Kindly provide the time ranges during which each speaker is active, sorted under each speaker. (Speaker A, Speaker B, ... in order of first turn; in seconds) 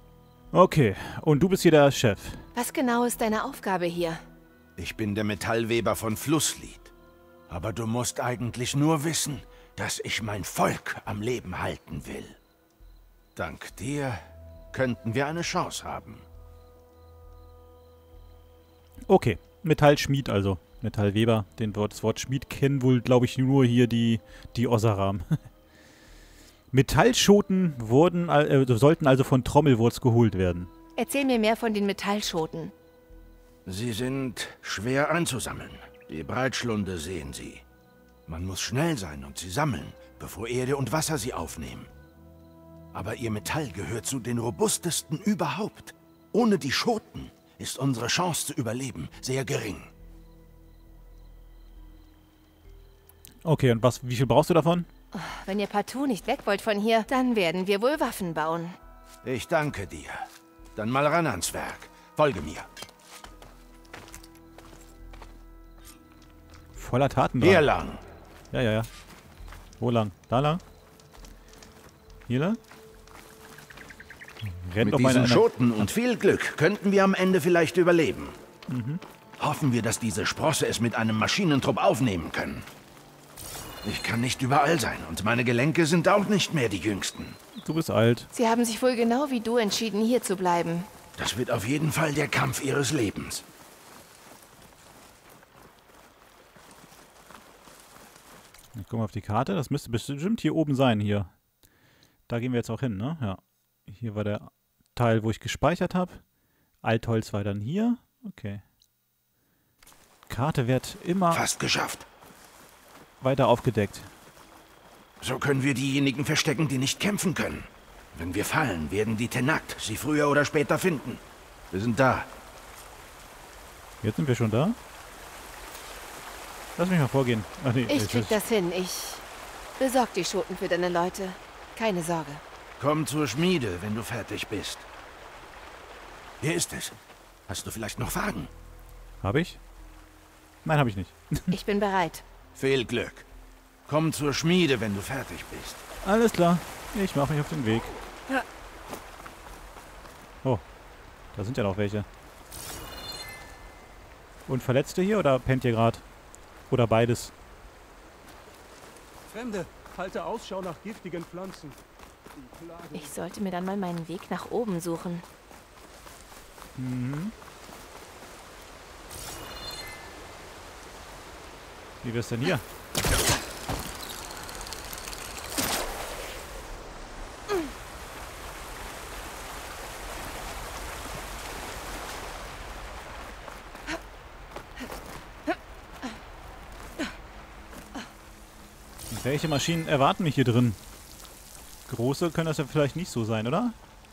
Speaker A: 0.5-2.4, 19.1-25.4, 26.7-30.7, 53.4-54.9, 66.8-67.7, 68.5-68.9, 69.8-70.6, 72.3-72.6, 74.4-75.5, 78.7-79.0, 87.6-88.3, 98.8-101.3, 102.3-106.2, 106.8-108.6, 110.3-111.5, 113.2-114.1, 124.0-124.8, 126.8-128.4, 139.2-139.6, 140.7-141.5, 146.0-147.9, 151.3-152.1, 154.5-156.0, 156.7-157.3, 166.8-167.3, 172.0-172.7, 189.1-190.8, 191.9-193.8
Speaker B: 2.5-4.2, 31.0-32.7, 55.1-58.8, 88.3-90.9, 127.9-129.2, 129.8-132.4, 141.5-142.2, 162.9-165.2
Speaker C: 4.8-6.9, 7.5-12.4, 13.4-16.2, 33.7-37.6, 38.3-41.9, 42.9-49.9, 59.2-62.7, 67.4-68.0, 74.8-78.4, 79.4-82.7, 83.8-87.4, 91.2-93.5, 111.3-112.1, 115.2-122.3, 132.8-134.9, 136.4-137.0, 137.5-138.5, 142.6-143.3, 143.9-145.8
Speaker D: 159.3-161.8, 162.4-163.2